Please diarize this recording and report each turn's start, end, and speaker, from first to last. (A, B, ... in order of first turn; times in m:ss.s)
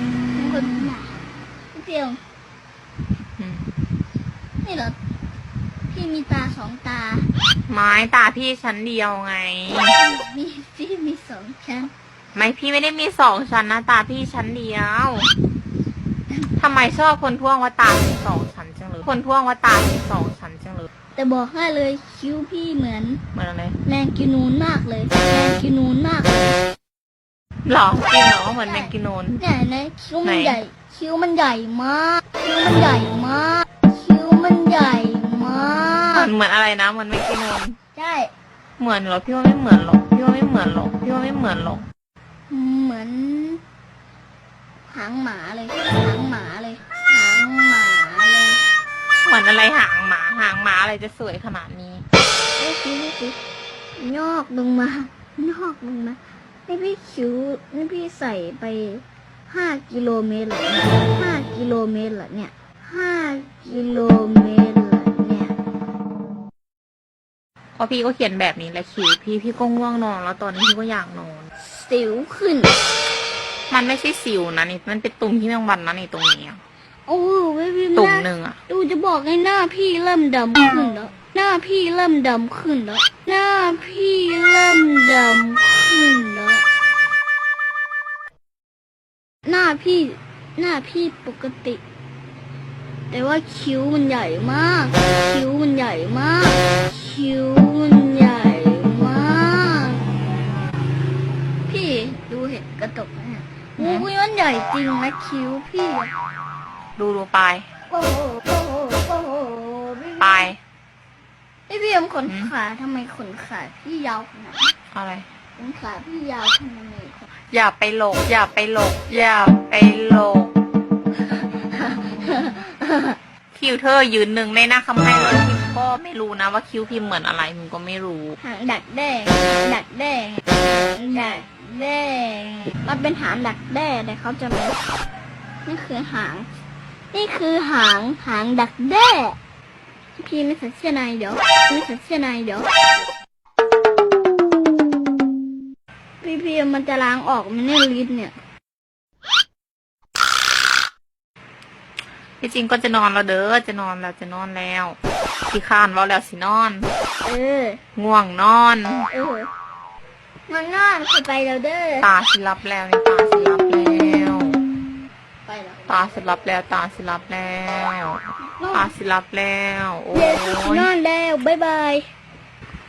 0:00.3-0:02.2 A
0:03.4-0:03.7 B
0:04.6-0:05.0 A
0:05.9-0:07.3 A
0:07.7-0:09.9 B
0:09.9-0:11.9 A
0:12.3-0:15.3 B
0:16.6-0:20.9 B
0:21.1-0:23.2 A
0:23.3-0:23.8 B
0:23.8-0:26.5 A
0:27.6-0:29.4 B
0:28.6-0:36.3 A
0:30.2-0:30.6 B
0:36.1-0:37.8 B
0:38.0-0:38.3 A
0:38.8-0:41.8 B
0:42.5-0:43.6 A
0:44.9-0:48.6 A
0:49.2-0:52.0 B
0:52.6-0:53.4 A
0:54.0-1:05.5 A
1:07.8-1:11.5 B
1:11.6-1:12.8 A
1:13.7-1:16.6 B
1:17.1-1:26.6 A
1:17.9-1:18.6 B
1:29.4-1:31.8 A
1:33.1-1:40.1 A
1:41.7-1:46.1 A
1:43.8-1:44.1 B
1:47.0-1:47.6 B
1:47.9-1:50.5 A
1:50.2-1:50.6 B
1:51.7-1:54.7 A
1:52.3-1:52.5 B
1:54.9-1:55.3 B
1:55.6-1:57.2 A
1:57.5-2:00.5 B
2:01.2-2:03.2 A
2:03.5-2:08.4 B
2:08.4-2:14.8 A
2:15.6-2:16.5 A
2:17.1-2:19.4 A
2:20.2-2:22.7 A
2:26.2-2:28.3 A
2:32.4-2:35.0 B
2:35.5-2:36.9 B
2:37.2-2:37.8 A
2:38.0-2:39.0 B
2:39.1-2:39.5 A
2:40.5-2:42.1 A
2:42.0-2:44.6 B
2:45.4-2:45.8 A
2:45.9-2:48.2 B
2:48.5-2:48.9 A
2:48.7-2:50.9 B
2:50.1-2:52.1 A